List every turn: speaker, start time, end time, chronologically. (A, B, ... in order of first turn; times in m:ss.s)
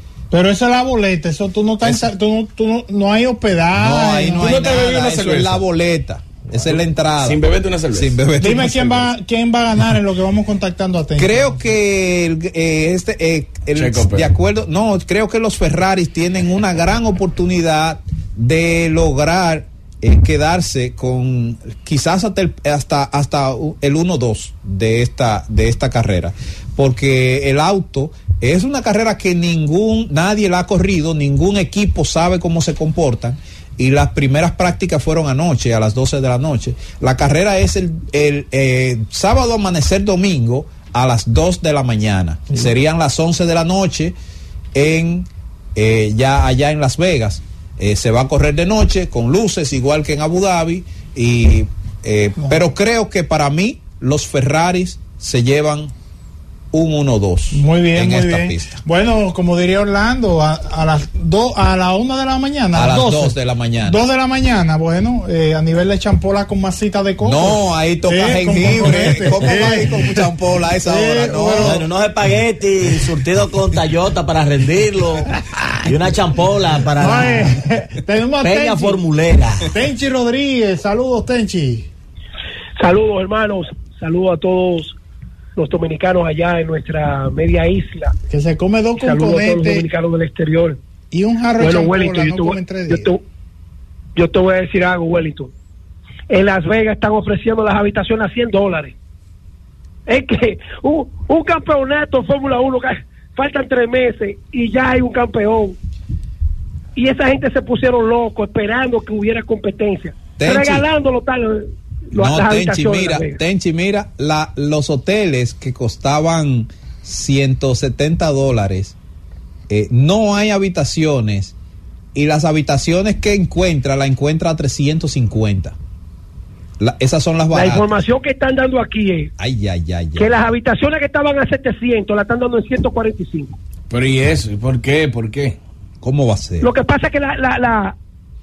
0:00.3-0:04.6 A
0:03.8-0:07.4 B
0:04.4-0:05.7 C
0:06.5-0:08.2 C
0:07.9-0:09.1 B
0:08.4-0:11.7 A
0:11.2-0:44.2 B
0:13.7-0:14.3 C
0:44.7-0:55.9 B
0:56.7-0:58.8 B
0:57.5-1:10.2 A
1:02.8-1:04.0 B
1:07.2-1:11.9 B
1:10.9-1:11.8 A
1:11.6-1:17.6 D
1:17.0-1:19.0 A
1:18.4-1:19.7 D
1:19.7-1:21.9 A
1:22.8-1:25.0 E
1:25.6-1:28.1 E
1:28.3-1:29.9 A
1:29.0-1:30.8 E
1:31.1-1:33.1 A
1:31.6-1:33.2 E
1:34.2-1:35.5 E
1:36.3-1:38.9 E
1:40.1-1:45.8 E
1:47.0-1:53.4 E
1:50.4-1:50.9 B
1:52.1-1:59.0 B
1:59.7-2:01.5 B
2:02.1-2:05.8 B
2:06.8-2:07.9 B
2:07.5-2:09.3 E
2:09.4-2:10.3 B
2:10.2-2:13.6 E
2:13.9-2:15.6 C
2:16.0-2:16.7 B
2:16.6-2:18.0 E